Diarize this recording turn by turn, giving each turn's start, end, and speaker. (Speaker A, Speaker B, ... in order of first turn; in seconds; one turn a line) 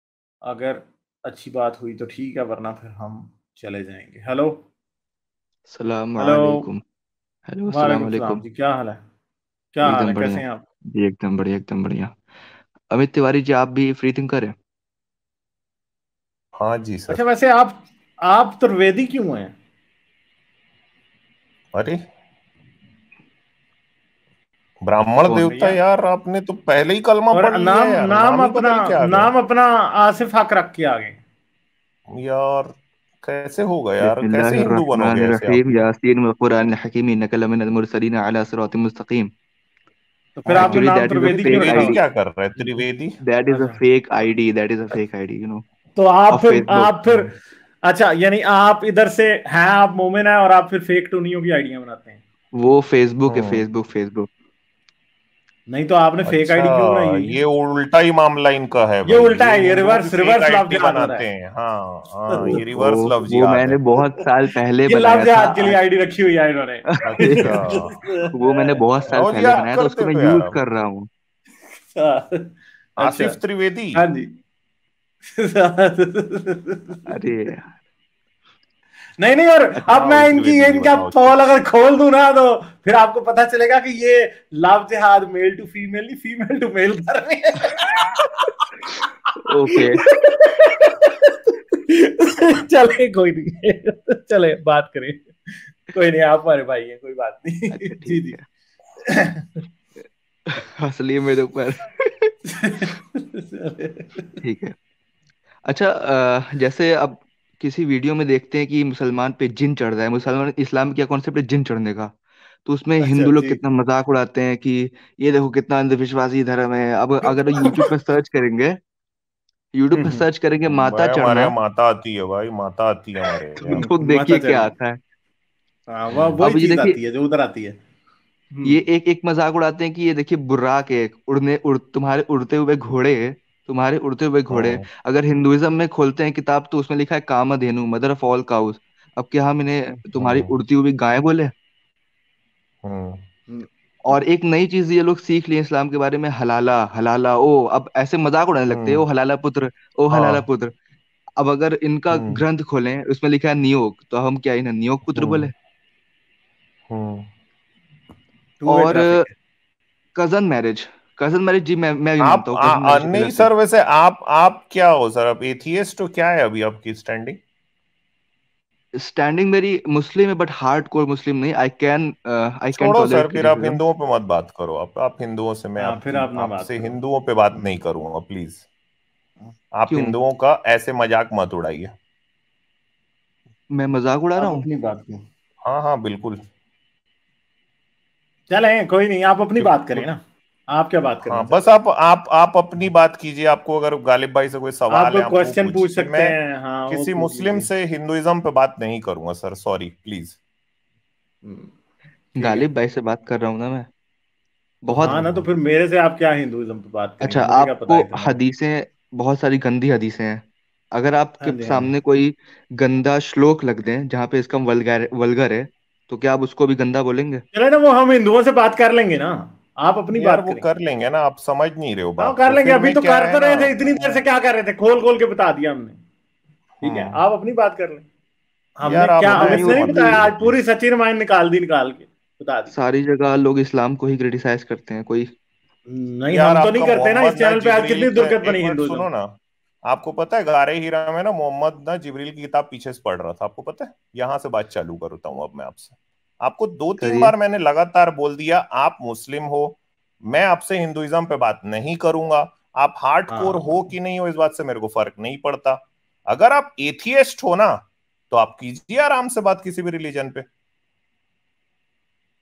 Speaker A: 0.4-4.7
Speaker B: 5.7-6.8
Speaker A: 6.2-6.7
Speaker B: 7.5-8.4
Speaker A: 7.7-9.0
Speaker A: 9.7-10.6
Speaker B: 9.8-10.4
Speaker B: 10.9-12.2
Speaker B: 12.9-14.6
Speaker C: 16.6-17.2
Speaker A: 17.1-19.5
Speaker C: 21.7-22.0
Speaker C: 24.8-29.3
Speaker B: 25.2-25.5
Speaker A: 25.5-25.8
Speaker A: 27.3-31.2
Speaker C: 32.1-35.7
Speaker B: 34.0-39.3
Speaker A: 40.4-42.0
Speaker C: 40.5-43.1
Speaker B: 40.5-42.0
Speaker B: 43.2-45.6
Speaker A: 43.5-43.8
Speaker A: 45.9-47.3
Speaker B: 46.3-47.2
Speaker A: 47.8-52.2
Speaker B: 52.5-54.3
Speaker C: 53.3-53.6
Speaker A: 55.7-57.3
Speaker C: 56.2-63.8
Speaker A: 59.0-61.2
Speaker A: 62.3-62.6
Speaker B: 62.4-65.8
Speaker A: 64.9-68.8
Speaker B: 67.0-67.6
Speaker C: 67.0-68.0
Speaker B: 68.3-71.1
Speaker C: 69.1-70.6
Speaker A: 71.8-73.4
Speaker C: 73.0-74.0
Speaker A: 74.0-74.3
Speaker A: 75.3-77.1
Speaker B: 77.0-77.7
Speaker A: 79.2-88.1
Speaker C: 79.8-81.4
Speaker B: 89.5-90.0
Speaker A: 90.0-91.3
Speaker A: 91.9-95.3
Speaker A: 95.9-98.3
Speaker B: 97.7-98.4
Speaker A: 99.0-99.6
Speaker B: 100.5-102.3
Speaker A: 102.5-104.3
Speaker B: 104.4-104.7
Speaker B: 105.7-112.1
Speaker B: 112.7-118.8
Speaker A: 113.0-113.6
Speaker B: 119.7-121.5
Speaker C: 120.7-123.8
Speaker B: 123.6-125.0
Speaker A: 123.7-124.7
Speaker A: 125.9-127.8
Speaker B: 126.4-127.0
Speaker A: 128.5-128.8
Speaker B: 128.6-141.5
Speaker C: 134.5-134.8
Speaker C: 140.2-140.5
Speaker C: 142.8-143.2
Speaker A: 143.5-144.2
Speaker B: 144.1-150.7
Speaker C: 148.7-149.0
Speaker C: 150.1-150.4
Speaker B: 151.4-155.5
Speaker C: 152.1-152.4
Speaker C: 155.1-155.5
Speaker C: 156.9-157.3
Speaker A: 158.6-159.3
Speaker B: 158.7-159.2
Speaker B: 160.2-163.5
Speaker C: 162.2-167.4
Speaker B: 169.0-173.8
Speaker C: 172.8-178.6
Speaker A: 175.8-177.0
Speaker C: 179.7-181.9
Speaker B: 179.9-180.2
Speaker B: 183.7-184.6
Speaker A: 184.3-185.2
Speaker C: 185.6-186.4
Speaker A: 188.5-191.6
Speaker C: 189.6-190.1
Speaker C: 191.3-196.3
Speaker A: 194.9-197.7
Speaker C: 196.9-200.4
Speaker A: 201.4-201.7
Speaker B: 202.3-203.9
Speaker A: 202.4-202.7
Speaker B: 204.8-205.2
Speaker A: 204.9-208.4
Speaker C: 205.0-205.4
Speaker B: 207.2-217.4
Speaker A: 211.4-211.9
Speaker A: 217.5-220.6
Speaker C: 220.1-224.2
Speaker A: 222.2-226.0
Speaker A: 226.8-228.1
Speaker C: 226.8-227.2
Speaker A: 228.8-232.7
Speaker C: 228.8-230.6
Speaker B: 229.3-230.2
Speaker B: 232.7-235.3
Speaker A: 235.9-239.1
Speaker C: 236.3-260.4
Speaker B: 247.0-247.3
Speaker A: 253.3-253.6